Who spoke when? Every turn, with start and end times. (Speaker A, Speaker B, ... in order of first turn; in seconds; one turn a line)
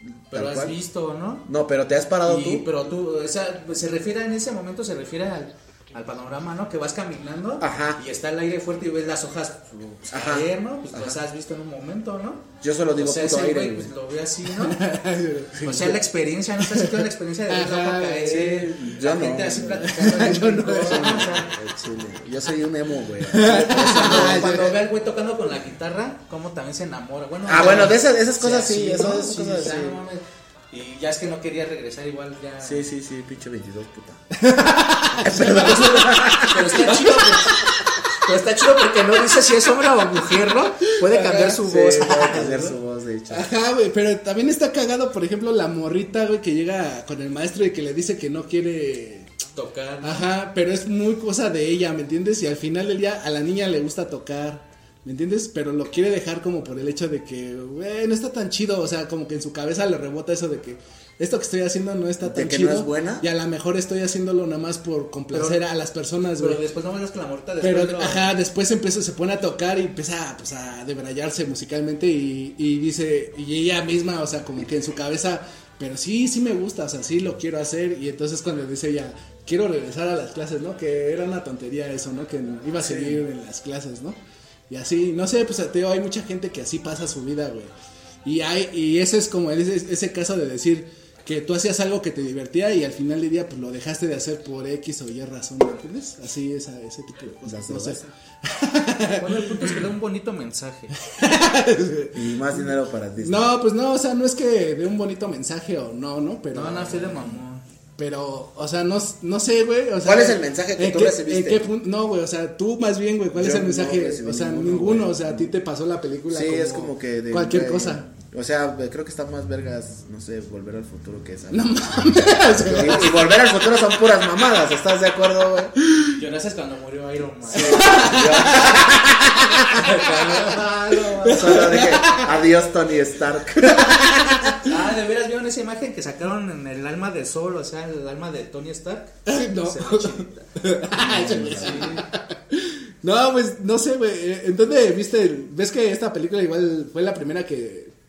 Speaker A: 0.3-0.8
Speaker B: 0.3-1.5
Speaker A: 1.5-2.7
Speaker B: 2.2-14.8
Speaker A: 7.6-8.0
Speaker A: 10.1-11.2
Speaker A: 12.6-13.9
Speaker C: 14.6-16.0
Speaker B: 15.6-21.5
Speaker C: 17.5-18.4
Speaker A: 18.2-20.0
Speaker C: 19.8-21.3
Speaker A: 20.8-24.8
Speaker C: 23.2-24.8
Speaker B: 23.8-32.8
Speaker A: 27.5-30.0
Speaker C: 27.5-27.9
Speaker A: 32.6-34.2
Speaker C: 34.3-38.0
Speaker A: 35.2-37.0
Speaker B: 35.4-42.8
Speaker C: 40.9-41.6
Speaker A: 41.6-43.5
Speaker C: 43.3-49.3
Speaker B: 49.5-50.3
Speaker C: 50.0-66.6
Speaker A: 62.2-63.2
Speaker B: 65.3-65.6
Speaker B: 66.4-68.3
Speaker C: 67.6-84.2
Speaker A: 82.8-83.2
Speaker C: 84.7-87.7
Speaker C: 88.2-99.8
Speaker A: 97.4-98.1
Speaker B: 99.2-101.0
Speaker C: 101.0-102.2
Speaker A: 102.1-103.5
Speaker C: 103.2-107.4
Speaker B: 106.5-107.6
Speaker C: 108.0-118.1
Speaker A: 110.0-111.7
Speaker A: 113.3-115.5
Speaker A: 116.3-121.7
Speaker C: 121.5-123.2
Speaker A: 122.5-125.7
Speaker B: 126.1-128.8
Speaker A: 127.5-128.8
Speaker C: 127.6-129.8
Speaker B: 129.7-132.0
Speaker C: 130.5-132.3
Speaker A: 131.3-134.1
Speaker C: 133.6-134.7
Speaker B: 134.6-140.5
Speaker C: 139.3-147.9
Speaker A: 141.0-142.0
Speaker B: 141.5-142.1